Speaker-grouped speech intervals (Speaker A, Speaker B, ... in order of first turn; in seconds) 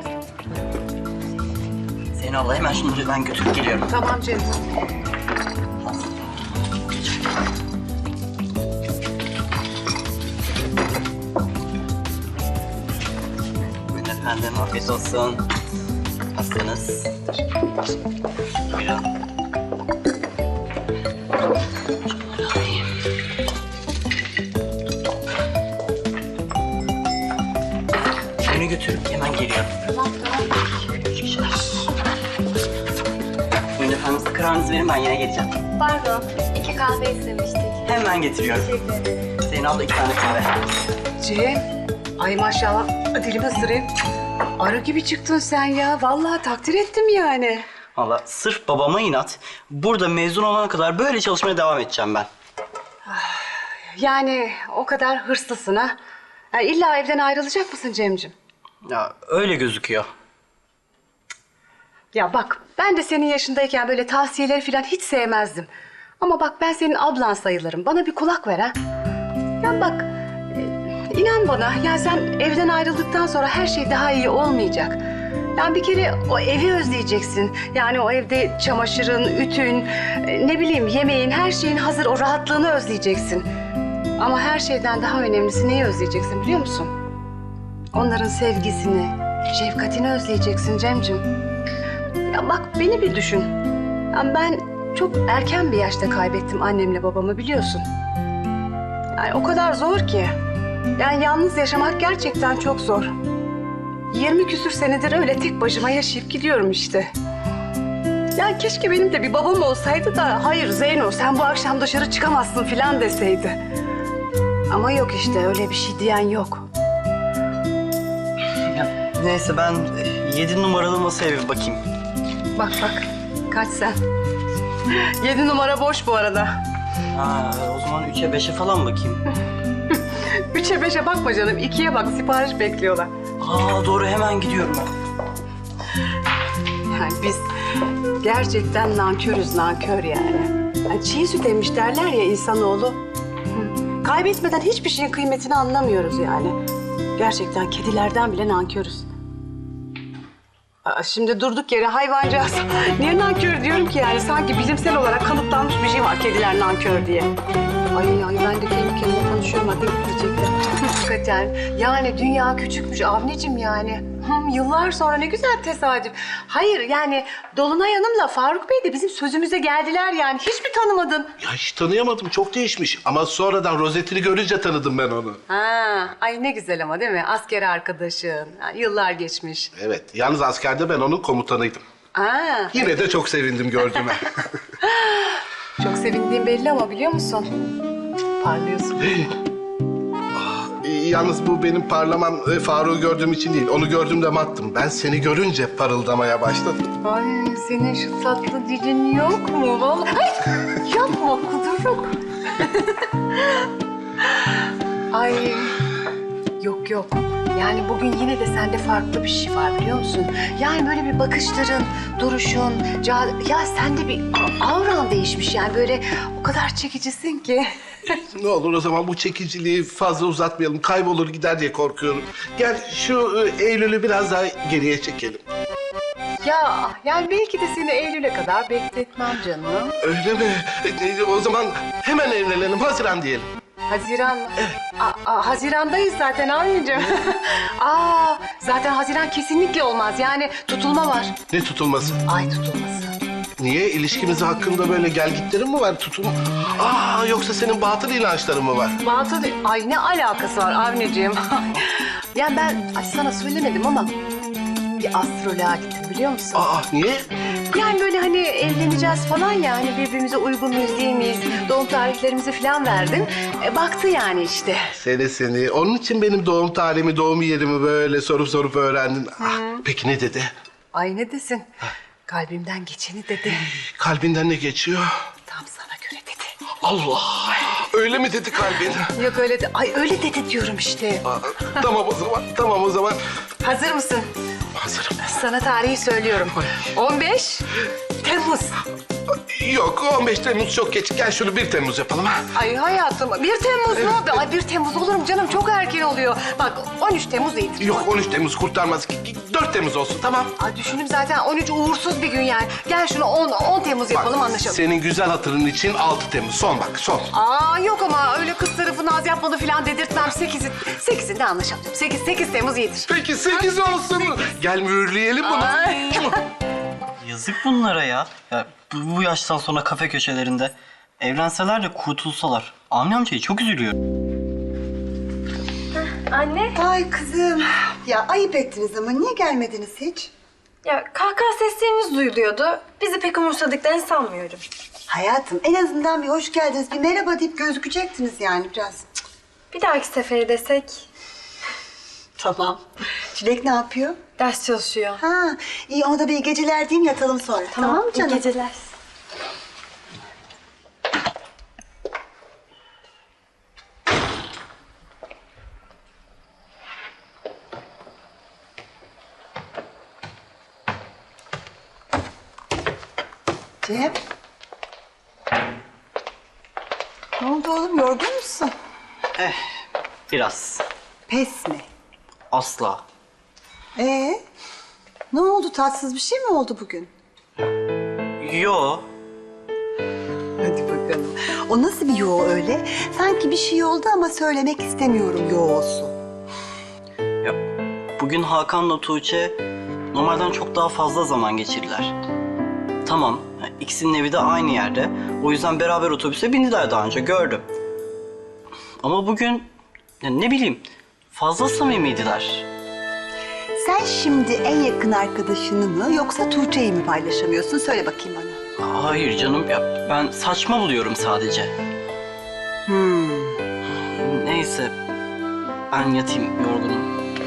Speaker A: 2.1-3.9, 13.9-15.4, 16.3-17.1, 18.7-19.1, 22.0-22.8, 28.4-29.7, 31.1-31.7, 33.7-35.5, 37.8-38.7, 39.4-40.5, 48.0-52.3, 58.9-60.1, 118.7-121.8, 127.1-129.2, 133.4-134.9, 317.2-323.9, 370.3-370.8, 372.5-373.0, 378.4-379.1, 388.2-389.6, 390.1-392.1, 393.0-397.6, 399.0-399.7, 400.2-402.7, 408.8-411.7, 414.1-414.9, 415.9-417.1
Speaker B: 3.9-4.5, 41.2-41.6, 42.2-43.9, 44.6-47.6, 53.0-55.9, 56.5-58.3, 62.1-65.7, 66.2-68.8, 69.6-75.0, 75.5-83.5, 84.2-86.9, 87.9-91.2, 92.3-93.5, 94.1-97.8, 99.1-100.3, 101.0-103.1, 104.1-107.1, 108.3-113.6, 114.7-116.7, 122.5-124.0, 124.9-126.6, 129.9-133.1, 136.9-137.5, 138.2-143.0, 143.5-146.6, 147.2-149.1, 150.8-157.3, 157.9-171.3, 175.5-179.7, 182.1-182.8, 184.8-187.5, 188.4-189.3, 197.0-203.0, 205.1-205.7, 206.6-217.7, 226.4-229.9, 233.9-241.3, 242.2-243.2, 249.0-254.2, 255.0-256.7, 257.7-264.8, 269.4-269.8, 270.9-271.7, 272.3-273.6, 275.5-276.5, 279.1-281.2, 283.6-284.3, 285.2-287.6, 288.2-288.7, 292.5-298.1, 300.6-304.8, 307.3-313.0, 315.5-316.1
Speaker C: 35.8-37.7, 326.1-326.7, 330.8-334.6, 339.7-341.0, 344.4-345.1, 347.8-348.7
Speaker D: 171.4-175.4, 179.8-181.8, 182.7-184.3, 190.4-196.9, 218.3-225.4, 230.0-233.5, 241.5-242.2, 243.6-249.0, 256.5-257.3, 265.0-270.5, 274.0-275.1, 276.8-279.1, 281.3-283.2, 284.8-285.2, 289.5-292.4, 297.8-300.5, 304.1-307.3, 313.1-316.4
Speaker E: 326.7-330.3, 335.1-339.0, 342.4-342.8, 343.3-344.2, 345.2-348.5, 363.8-364.2, 367.4-368.7, 371.3-371.8, 373.9-374.4, 375.3-377.1, 380.6-386.1, 403.8-408.6, 412.9-413.6